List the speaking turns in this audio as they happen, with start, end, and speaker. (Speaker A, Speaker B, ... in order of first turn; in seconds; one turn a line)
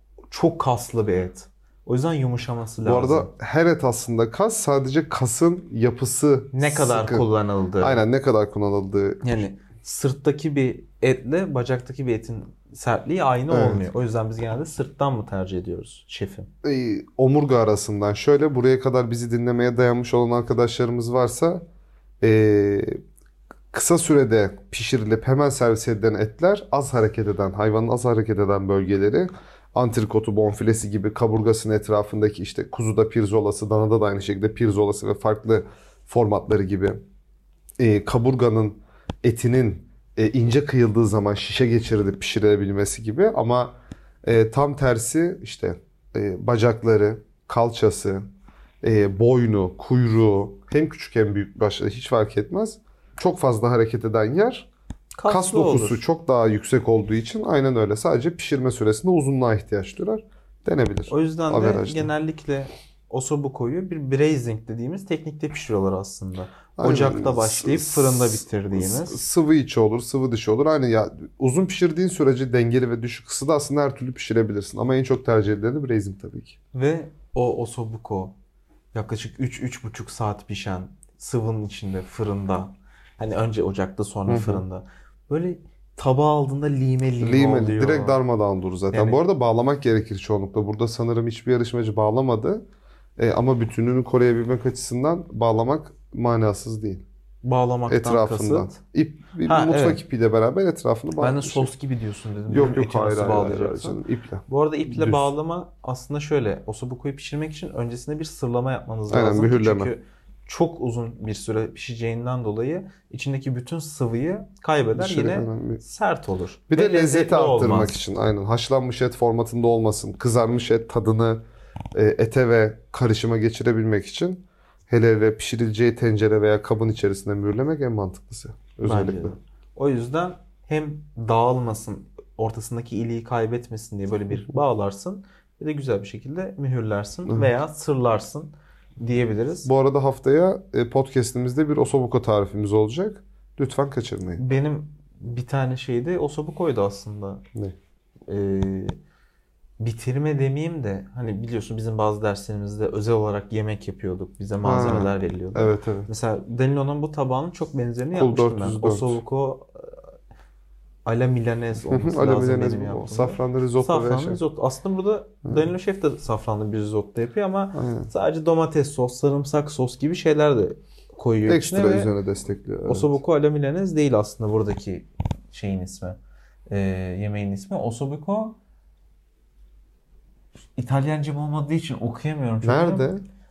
Speaker A: 0.3-3.3
Speaker B: 2.8-7.3
Speaker A: 6.5-8.0
Speaker B: 7.8-9.4
Speaker A: 9.2-16.5
Speaker B: 13.5-13.9
Speaker B: 16.6-21.6
Speaker B: 22.2-23.0
Speaker B: 23.7-37.0
Speaker B: 37.8-48.2
Speaker B: 48.8-54.7
Speaker A: 55.2-56.0
Speaker B: 55.3-62.1
Speaker A: 61.1-69.2
Speaker B: 66.8-76.6
Speaker A: 76.7-78.4
Speaker A: 78.9-88.2
Speaker B: 84.3-84.6
Speaker B: 87.2-92.6
Speaker A: 88.9-89.2
Speaker B: 93.2-97.0
Speaker A: 97.4-98.8
Speaker B: 97.9-101.7
Speaker A: 99.5-100.0
Speaker A: 101.2-118.0
Speaker B: 102.5-105.3
Speaker B: 109.1-109.9
Speaker B: 114.9-115.8
Speaker B: 116.7-121.4
Speaker B: 122.0-129.4
Speaker A: 128.8-139.7
Speaker B: 139.7-144.4
Speaker A: 144.4-147.4
Speaker A: 148.3-149.0
Speaker A: 149.8-160.1
Speaker B: 154.6-156.1
Speaker B: 158.1-159.2
Speaker A: 161.1-172.1
Speaker B: 161.9-164.4
Speaker B: 167.7-168.1
Speaker B: 171.5-173.2
Speaker A: 172.8-176.2
Speaker A: 176.7-178.6
Speaker A: 180.8-183.1
Speaker B: 182.6-183.2